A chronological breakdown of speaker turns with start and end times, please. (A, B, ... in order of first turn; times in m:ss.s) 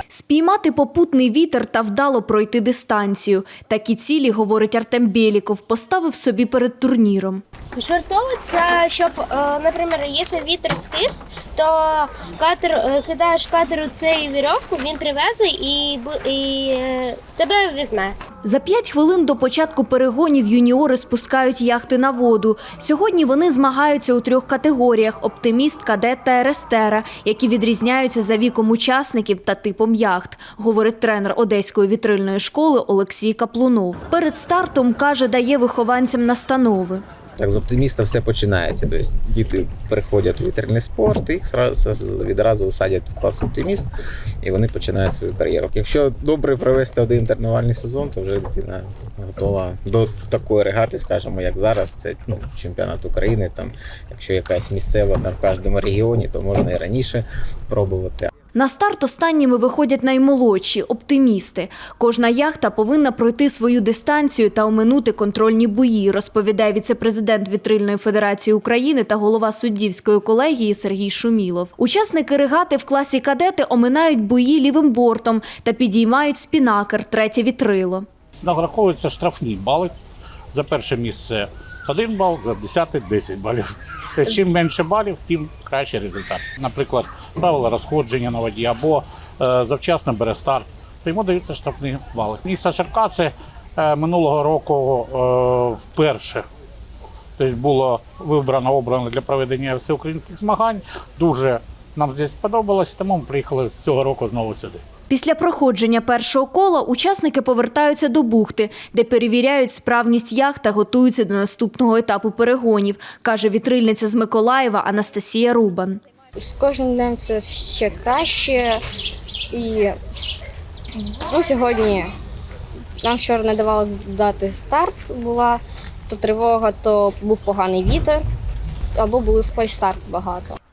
0:00.1-0:07.4 A
0:07.8-0:18.2 B
0:18.4-0:37.0 A
0:37.4-0:43.9 C
0:44.4-0:58.3 C
0:58.6-1:18.0 A
1:18.4-1:19.9 D
1:20.5-1:36.4 D
1:37.4-1:44.8 D
1:45.1-1:56.0 A
1:56.4-1:58.8 E
1:59.5-2:00.0 E
2:01.0-2:02.1 E
2:03.0-2:08.2 E
2:09.0-2:10.6 E